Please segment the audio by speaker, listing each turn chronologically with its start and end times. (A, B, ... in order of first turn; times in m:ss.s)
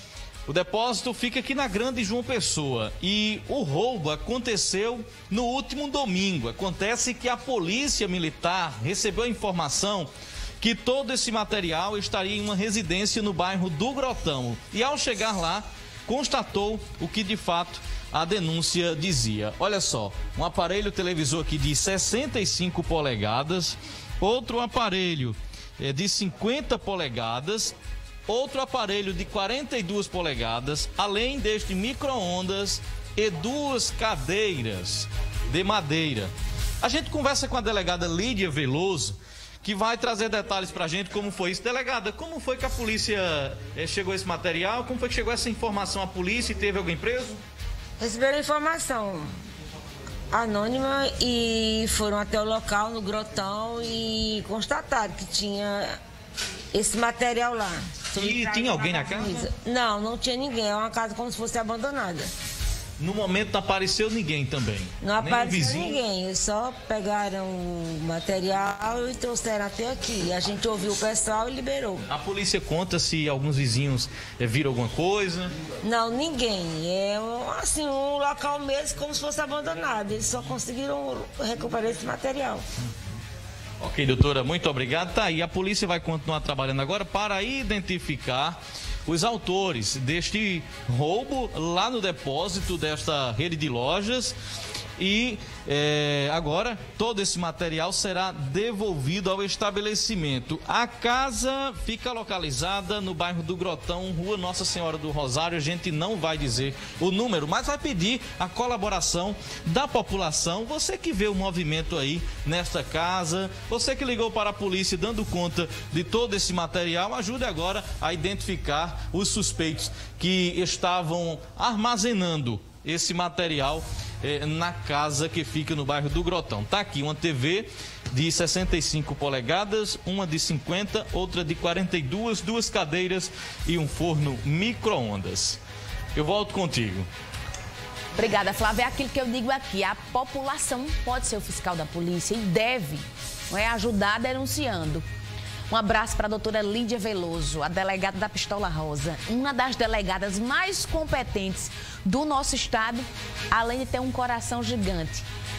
0:00.5-0:10.1 A
0:10.6-0:27.8 A
0:28.3-0:47.4 A
0:48.0-0:49.3 B
0:50.3-0:55.9 B
0:56.7-1:02.3 B
0:58.2-0:59.5 A
1:03.0-1:06.0 A
1:05.0-1:12.1 B
1:12.1-1:15.5 A
1:15.8-1:22.6 B
1:23.8-1:34.4 A
1:35.0-2:15.6 A
2:16.2-2:17.1 A
2:18.2-2:25.0 C
2:25.7-2:35.3 C